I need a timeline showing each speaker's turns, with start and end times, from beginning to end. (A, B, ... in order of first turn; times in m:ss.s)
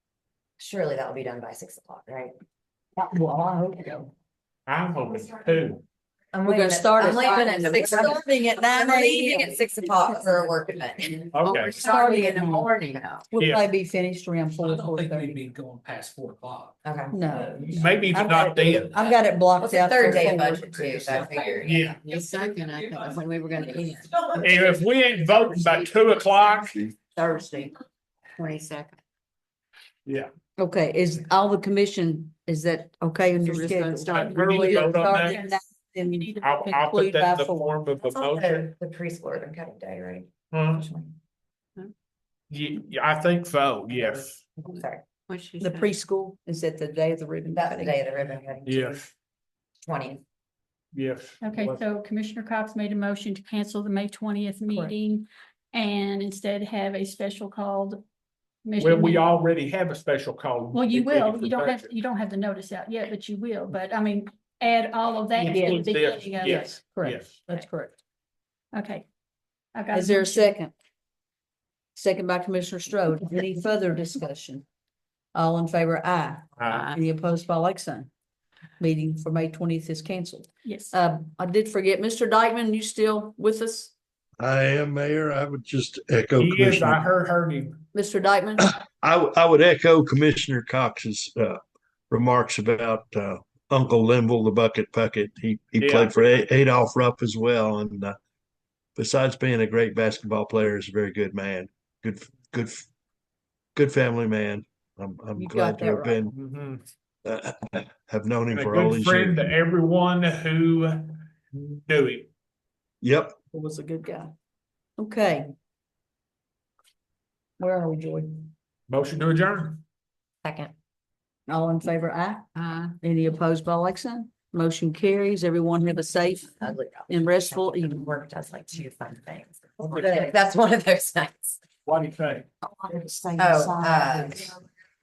0:00.6-0:02.3 A
0:03.0-0:04.1 B
0:04.7-0:05.8 C
0:06.3-0:11.2 A
0:06.5-0:10.2 B
0:07.5-0:08.0 D
0:11.3-0:11.9 C
0:11.4-0:13.3 D
0:11.7-0:12.7 B
0:13.3-0:15.4 B
0:13.4-0:13.7 C
0:14.5-0:16.7 E
0:16.8-0:17.6 A
0:17.1-0:20.8 B
0:17.5-0:18.1 E
0:17.8-0:18.9 C
0:19.1-0:21.9 A
0:21.6-0:22.0 C
0:21.9-0:24.8 D
0:24.4-0:26.9 C
0:25.6-0:27.8 D
0:28.4-0:29.0 D
0:30.1-0:30.3 C
0:30.6-0:37.7 B
0:33.4-0:34.9 D
0:34.1-0:35.4 C
0:35.0-0:36.4 F
0:36.4-0:38.7 C
0:38.0-0:41.2 A
0:40.5-0:40.9 C
0:42.5-0:44.5 C
0:44.6-0:45.0 A
0:45.3-0:45.9 D
0:45.6-0:48.0 B
0:47.5-0:49.1 A
0:48.6-0:49.1 C
0:49.8-0:50.2 A
0:50.9-0:51.8 C
0:51.4-0:58.0 F
0:58.6-0:59.3 F
0:58.8-1:01.9 C
1:00.7-1:06.7 F
1:05.4-1:07.4 C
1:05.5-1:05.8 B
1:06.4-1:08.0 B
1:08.7-1:09.1 F
1:09.7-1:10.6 F
1:09.9-1:10.7 B
1:12.0-1:14.6 B
1:15.3-1:18.1 B
1:16.6-1:16.9 C
1:16.7-1:17.0 D
1:18.8-1:23.9 B
1:20.6-1:21.0 F
1:24.4-1:27.0 G
1:26.4-1:27.8 C
1:27.9-1:28.7 B
1:28.6-1:38.2 G
1:35.8-1:36.2 C
1:39.0-1:42.9 G
1:43.8-1:46.4 G
1:45.4-1:46.2 B
1:46.4-1:46.8 C
1:47.2-1:49.5 G
1:48.5-1:52.3 C
1:53.0-1:53.4 G
1:53.5-1:54.3 B
1:55.0-1:55.5 B
1:57.6-1:58.5 B
1:58.9-1:59.8 C
2:00.4-2:00.7 A
2:01.5-2:02.5 B
2:03.0-2:08.1 B
2:06.6-2:11.6 A
2:09.9-2:10.3 B
2:11.9-2:12.5 C
2:12.8-2:14.0 B
2:13.4-2:14.5 A